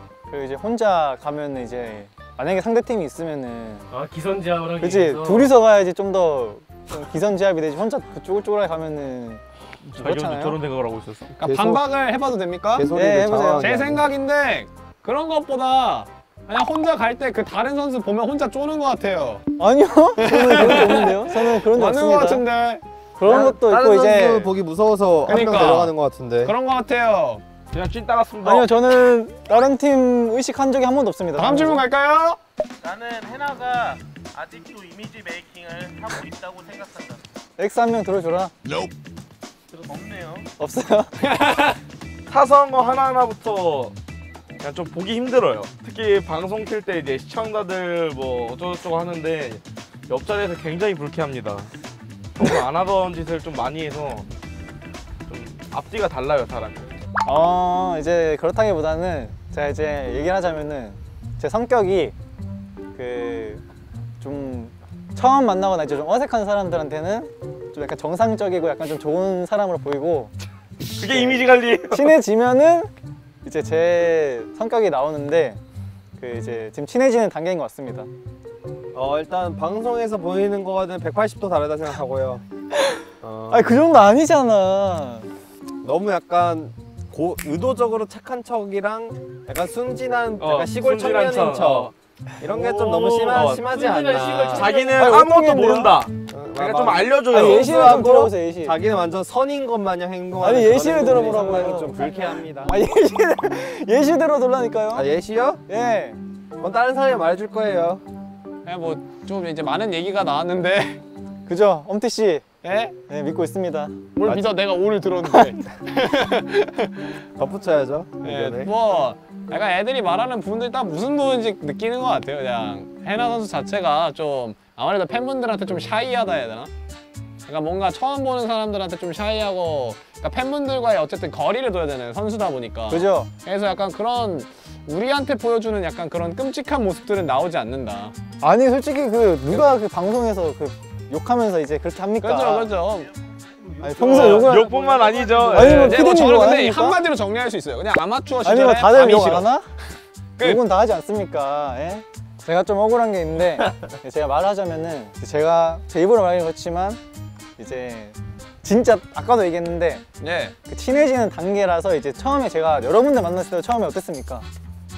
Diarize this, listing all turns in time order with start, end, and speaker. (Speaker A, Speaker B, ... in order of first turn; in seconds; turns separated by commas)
Speaker A: 0.3-3.9, Speaker B: 3.9-5.5, Speaker A: 4.8-9.4, Speaker C: 9.8-11.4, Speaker A: 9.9-10.6, Speaker D: 11.4-12.9, Speaker E: 11.4-11.8, Speaker E: 12.8-14.0, Speaker A: 12.9-13.9, Speaker D: 13.6-19.4, Speaker A: 19.6-22.4, Speaker D: 20.2-22.8, Speaker A: 23.2-24.6, Speaker E: 23.2-26.5, Speaker D: 25.2-27.4, Speaker C: 27.7-28.7, Speaker A: 28.4-31.8, Speaker D: 31.4-32.4, Speaker F: 32.8-37.2, Speaker A: 37.6-38.5, Speaker F: 39.7-40.5, Speaker A: 40.6-41.1, Speaker D: 41.2-41.8, Speaker C: 42.3-44.0, Speaker C: 44.6-51.7, Speaker C: 52.4-54.3, Speaker C: 55.3-56.9, Speaker A: 57.2-62.1, Speaker A: 62.9-63.6, Speaker A: 64.2-70.3, Speaker C: 71.0-72.2, Speaker A: 71.0-72.9, Speaker A: 73.4-75.6, Speaker A: 76.2-78.1, Speaker E: 78.9-82.4, Speaker E: 83.2-83.7, Speaker A: 83.5-85.3, Speaker E: 85.8-94.7, Speaker C: 90.4-91.9, Speaker C: 92.4-93.8, Speaker B: 93.6-95.1, Speaker C: 94.4-97.8, Speaker A: 95.0-96.0, Speaker E: 96.3-102.8, Speaker A: 97.3-98.8, Speaker A: 100.4-102.1, Speaker B: 101.1-102.6, Speaker A: 102.7-105.1, Speaker E: 104.9-105.6, Speaker A: 105.7-106.2, Speaker E: 106.6-108.0, Speaker D: 108.7-111.0, Speaker A: 111.5-112.5, Speaker D: 112.6-113.0, Speaker A: 113.1-114.1, Speaker D: 114.2-116.9, Speaker E: 117.4-118.7, Speaker D: 118.2-126.7, Speaker D: 127.5-138.2, Speaker A: 132.9-133.3, Speaker A: 138.4-142.7, Speaker D: 142.2-143.1, Speaker F: 143.5-144.0, Speaker A: 143.8-144.8, Speaker C: 144.0-146.1, Speaker D: 144.1-144.4, Speaker A: 145.5-147.0, Speaker D: 145.6-149.6, Speaker A: 148.4-149.7, Speaker A: 150.4-157.0, Speaker A: 157.6-160.1, Speaker D: 160.2-160.6, Speaker A: 160.7-164.5